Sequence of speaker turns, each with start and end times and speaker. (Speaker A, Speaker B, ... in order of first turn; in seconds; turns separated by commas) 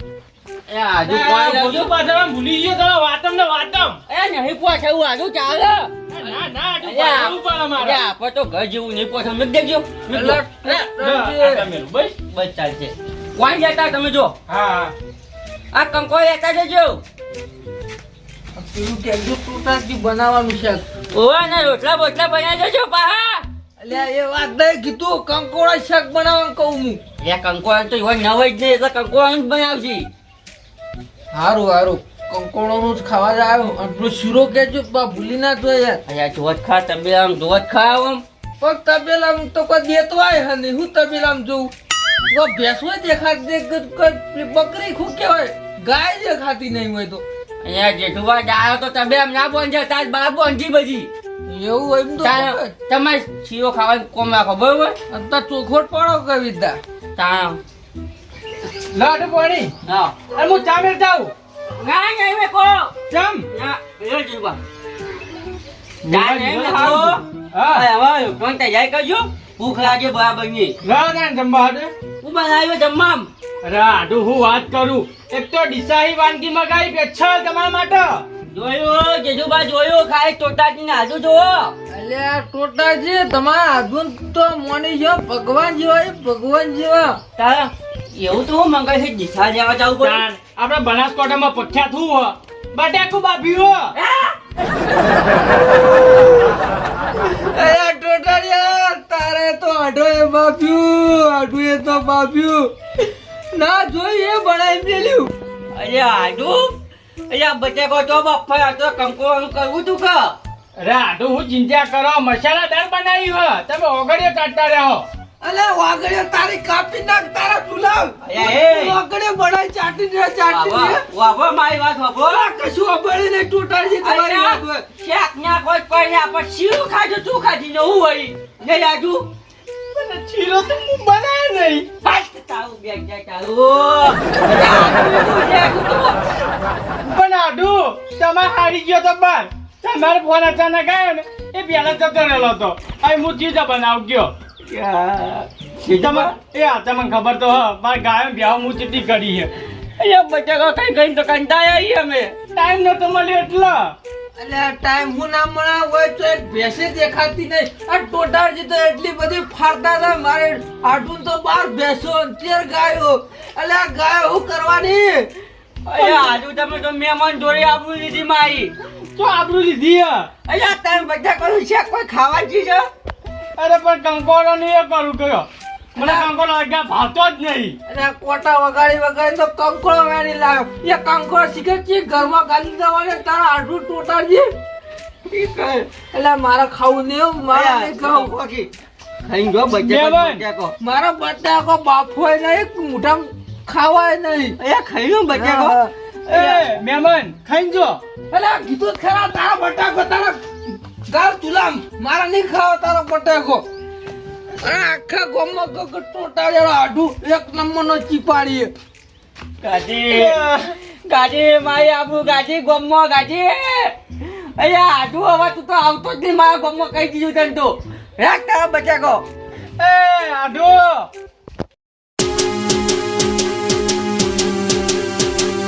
Speaker A: 0.7-1.9, Speaker B: 1.0-4.0, Speaker A: 4.1-5.9, Speaker B: 6.1-8.0, Speaker A: 6.8-10.4, Speaker C: 10.1-11.7, Speaker B: 10.6-12.2, Speaker A: 12.2-14.3, Speaker B: 14.5-14.9, Speaker A: 15.7-17.0, Speaker C: 18.5-20.8, Speaker A: 21.1-23.4, Speaker C: 23.8-27.0, Speaker A: 27.2-30.1, Speaker C: 31.3-36.0, Speaker A: 36.1-38.2, Speaker C: 38.6-41.7, Speaker C: 42.3-47.2, Speaker A: 47.6-51.1, Speaker C: 51.5-52.7, Speaker A: 52.2-55.0, Speaker C: 55.1-56.8, Speaker A: 57.1-57.6, Speaker B: 58.8-59.7, Speaker A: 59.9-60.2, Speaker B: 60.3-61.3, Speaker A: 61.8-62.9, Speaker B: 63.1-63.5, Speaker A: 63.5-64.6, Speaker B: 66.0-67.9, Speaker A: 66.1-70.7, Speaker B: 70.8-71.9, Speaker A: 72.2-73.3, Speaker B: 73.6-78.2, Speaker A: 78.5-81.7, Speaker C: 81.9-87.2, Speaker A: 87.4-90.2, Speaker B: 90.0-93.9, Speaker A: 94.0-94.4, Speaker C: 97.3-102.7, Speaker C: 103.5-105.3, Speaker A: 105.7-106.7, Speaker A: 107.3-110.3, Speaker B: 110.8-115.0, Speaker C: 115.4-121.0, Speaker A: 118.2-119.0, Speaker A: 120.5-122.5, Speaker C: 122.3-124.8, Speaker A: 124.0-129.3, Speaker B: 129.9-131.9, Speaker A: 132.0-136.2, Speaker B: 137.0-144.3, Speaker A: 144.7-146.3, Speaker B: 145.9-149.5, Speaker A: 150.0-152.3, Speaker B: 152.5-153.9, Speaker C: 154.4-165.3, Speaker A: 165.8-168.7, Speaker B: 169.2-170.3, Speaker A: 170.5-172.8, Speaker B: 173.6-177.8, Speaker C: 177.9-184.5, Speaker A: 185.3-185.9, Speaker C: 186.1-188.3, Speaker A: 187.5-188.7, Speaker A: 189.2-190.7, Speaker B: 189.8-190.4, Speaker C: 190.8-194.6, Speaker A: 194.6-196.8, Speaker C: 195.3-195.8, Speaker B: 196.3-198.0, Speaker C: 198.3-200.4, Speaker C: 201.1-203.6, Speaker C: 204.6-208.7, Speaker A: 209.6-219.2, Speaker B: 210.1-210.4, Speaker B: 219.8-221.1